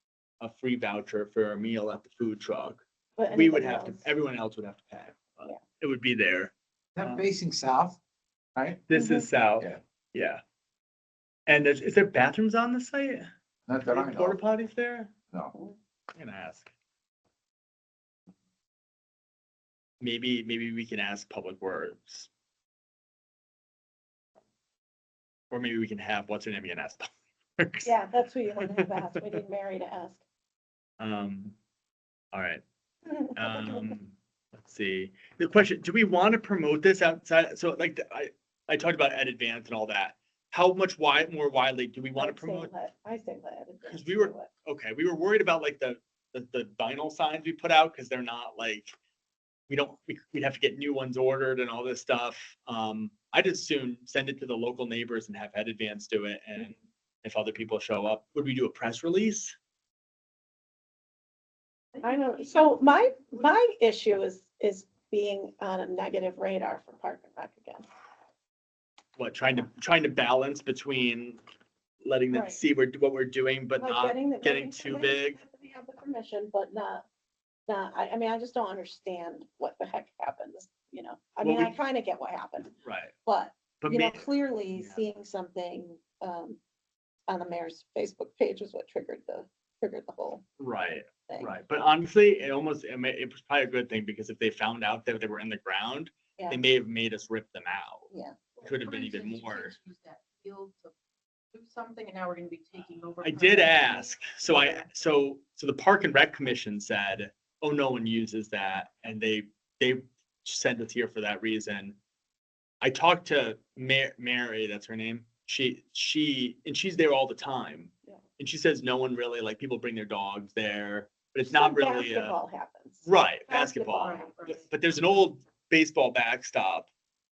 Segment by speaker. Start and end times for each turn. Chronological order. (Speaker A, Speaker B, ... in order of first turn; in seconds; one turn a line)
Speaker A: 0.4-7.2
Speaker B: 3.2-4.1
Speaker C: 7.0-8.0
Speaker C: 8.6-8.8
Speaker A: 8.9-10.4
Speaker B: 8.9-9.3
Speaker A: 11.5-13.3
Speaker C: 13.7-14.4
Speaker A: 13.9-15.1
Speaker A: 16.1-16.7
Speaker A: 20.0-22.3
Speaker A: 25.5-27.9
Speaker B: 27.8-30.2
Speaker A: 28.6-29.0
Speaker A: 31.0-31.6
Speaker A: 32.3-32.6
Speaker B: 33.1-33.9
Speaker A: 33.4-42.7
Speaker B: 42.2-44.5
Speaker A: 43.9-49.0
Speaker A: 49.7-59.6
Speaker D: 62.0-62.7
Speaker B: 62.0-67.9
Speaker A: 69.2-71.4
Speaker A: 72.0-75.4
Speaker B: 72.3-72.6
Speaker B: 73.8-77.0
Speaker B: 77.7-82.7
Speaker A: 81.4-81.7
Speaker A: 82.8-83.1
Speaker B: 83.3-86.6
Speaker A: 83.8-85.0
Speaker B: 87.3-90.4
Speaker A: 90.6-98.1
Speaker B: 98.1-98.4
Speaker D: 98.6-100.9
Speaker A: 98.6-99.8
Speaker D: 101.5-104.8
Speaker A: 103.2-112.0
Speaker A: 112.8-122.4
Speaker B: 121.5-124.3
Speaker A: 123.0-126.9
Speaker D: 123.9-124.7